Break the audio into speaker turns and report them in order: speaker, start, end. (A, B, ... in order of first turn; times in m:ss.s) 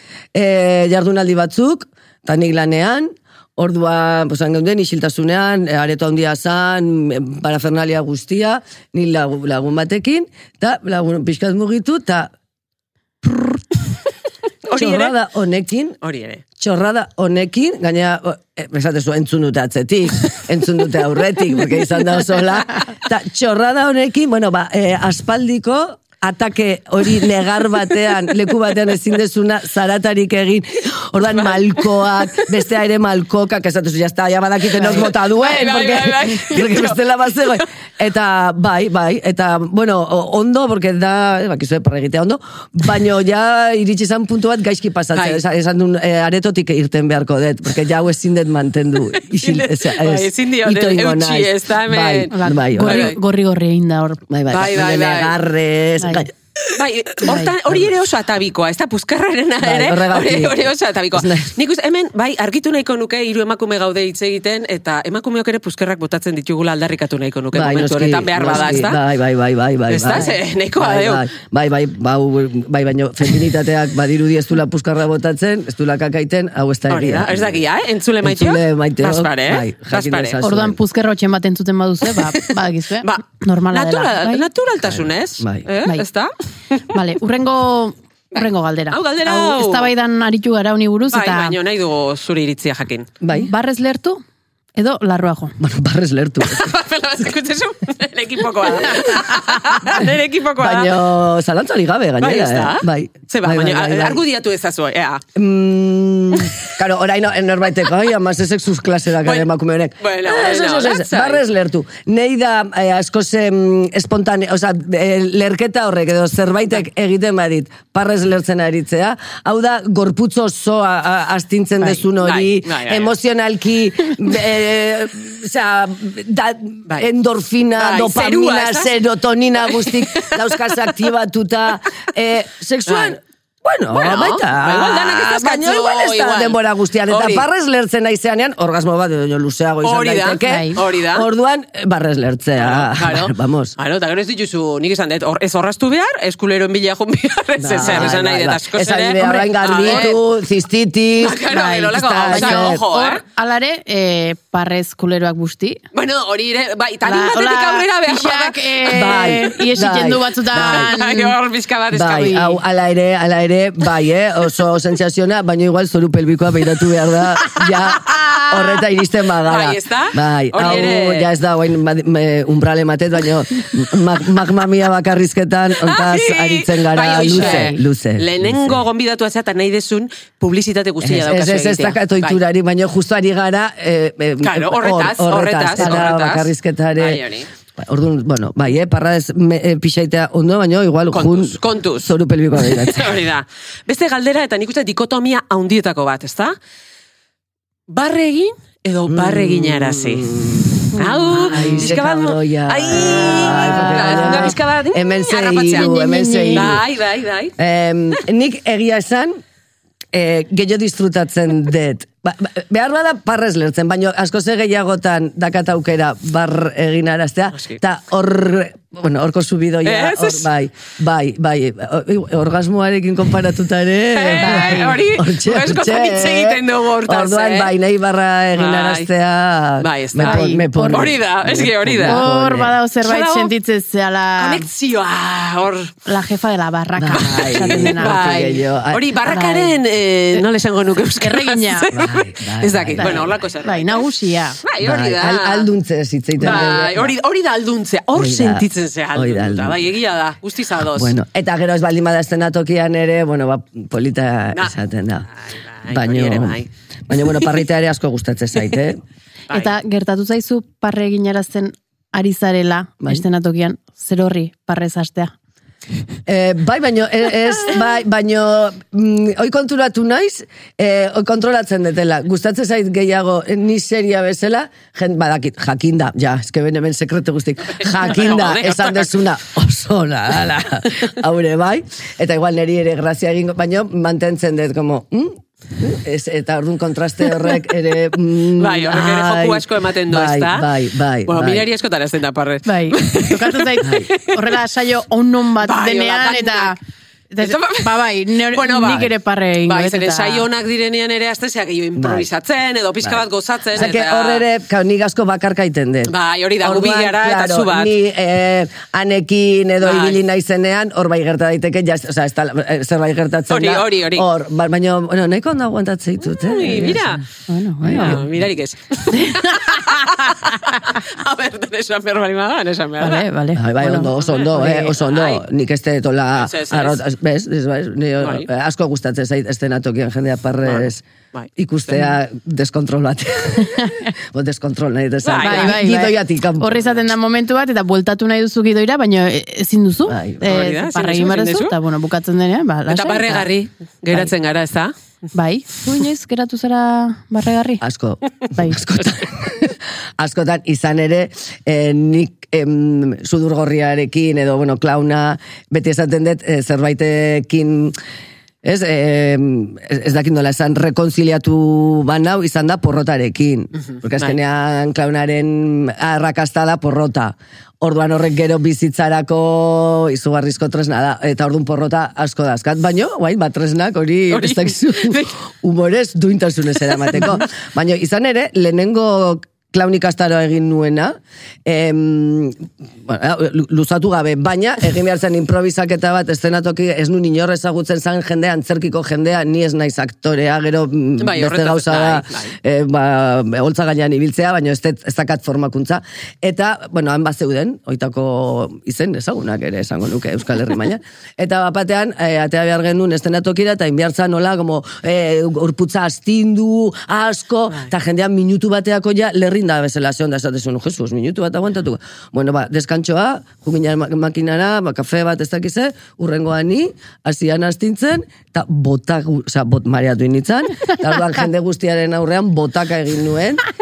0:00.3-0:12.3 A
0:13.2-0:13.6 A
0:14.7-0:15.1 B
0:14.7-0:16.0 A
0:16.0-0:16.4 B
0:16.6-0:53.1 A
0:31.4-0:31.9 B
0:34.8-0:37.6 B
0:45.1-0:45.4 B
0:49.3-0:53.2 B
0:52.3-0:54.2 C
0:54.3-0:56.3 A
0:54.5-0:55.4 B
0:56.0-0:56.3 C
0:56.7-1:09.0 B
0:57.3-0:57.5 C
0:57.3-0:57.9 A
0:59.6-1:01.5 A
1:07.5-1:17.6 A
1:09.9-1:11.3 B
1:16.9-1:20.4 B
1:18.2-1:20.8 A
1:20.4-1:24.5 C
1:22.2-1:22.5 B
1:23.0-1:26.9 B
1:24.8-1:25.7 A
1:26.9-1:31.6 C
1:28.9-1:29.9 B
1:31.1-1:33.1 B
1:33.2-1:33.5 A
1:33.3-1:34.2 C
1:34.8-1:35.6 C
1:35.6-1:36.7 A
1:36.4-1:41.0 B
1:39.8-1:44.2 A
1:42.2-1:45.2 B
1:45.4-2:23.8 A
1:50.0-1:51.4 B
2:02.2-2:03.1 B
2:07.8-2:08.9 B
2:09.7-2:10.8 B
2:12.9-2:13.2 B
2:13.9-2:17.5 B
2:19.8-2:21.3 B
2:20.4-2:20.8 C
2:22.6-2:30.2 B
2:27.6-2:32.8 A
2:27.8-2:28.1 C
2:29.2-2:30.1 C
2:31.2-2:33.2 B
2:31.5-2:35.8 C
2:35.9-2:39.4 B
2:37.0-2:41.4 C
2:38.8-2:40.9 A
2:40.5-2:42.4 B
2:41.9-2:58.8 A
2:42.0-2:42.6 C
2:47.6-2:48.6 B
2:49.4-2:51.3 B
2:55.8-3:02.4 B
2:57.3-2:57.8 C
3:01.0-3:07.2 A
3:04.4-3:07.5 B
3:07.8-3:13.2 A
3:11.1-3:16.6 B
3:17.9-3:20.3 B
3:19.1-3:26.8 A
3:20.9-3:25.9 B
3:21.0-3:21.9 C
3:23.7-3:24.6 C
3:25.7-3:26.7 C
3:26.5-3:27.5 B
3:27.6-3:29.4 A
3:30.1-3:52.8 A
3:39.8-3:40.5 B
3:44.1-3:47.7 B
3:44.4-3:45.0 C
3:48.6-3:49.1 B
3:49.8-3:52.2 B
3:50.2-3:51.1 C
3:52.0-3:54.7 C
3:53.0-3:53.5 B
3:54.4-3:55.9 B
3:56.1-3:58.6 C
3:57.0-3:59.0 A
3:57.2-4:04.1 B
3:59.3-3:59.8 C
4:01.2-4:01.9 C
4:01.9-4:03.3 A
4:03.0-4:04.6 C
4:04.6-4:05.7 B
4:04.8-4:07.2 A
4:06.4-4:11.1 B
4:08.2-4:09.9 A
4:10.9-4:15.3 A
4:15.4-4:16.7 B
4:15.9-4:19.0 A
4:19.5-4:25.3 C
4:26.3-4:51.7 A
4:37.8-4:39.1 B
4:48.6-4:50.7 B
4:51.3-4:54.6 B
4:52.7-4:56.8 C
4:53.8-4:54.1 A
4:55.6-4:56.8 B
4:57.3-5:00.5 C
4:57.4-4:57.9 B
4:58.5-4:59.1 B
4:59.7-5:04.4 B
5:02.0-5:02.3 A
5:03.7-5:17.2 A
5:06.1-5:07.9 B
5:09.8-5:10.2 B
5:13.5-5:14.3 B
5:16.2-5:17.2 B
5:17.5-5:18.2 C
5:17.8-5:18.2 A
5:17.9-5:23.3 B
5:19.1-5:19.8 C
5:23.0-5:24.9 C
5:23.6-5:31.0 A
5:24.2-5:25.4 B
5:26.4-5:27.0 B
5:28.2-5:28.5 B
5:30.6-5:32.0 B
5:31.6-5:36.9 A
5:33.8-5:34.1 C
5:35.2-5:35.8 B
5:35.4-5:43.5 C
5:40.1-5:40.5 A
5:40.4-5:41.8 B
5:42.9-5:44.9 B
5:45.3-5:47.8 C
5:47.8-5:58.0 A
5:58.6-7:03.6 A
6:14.3-6:15.4 B
6:17.1-6:17.4 B
6:31.2-6:32.5 B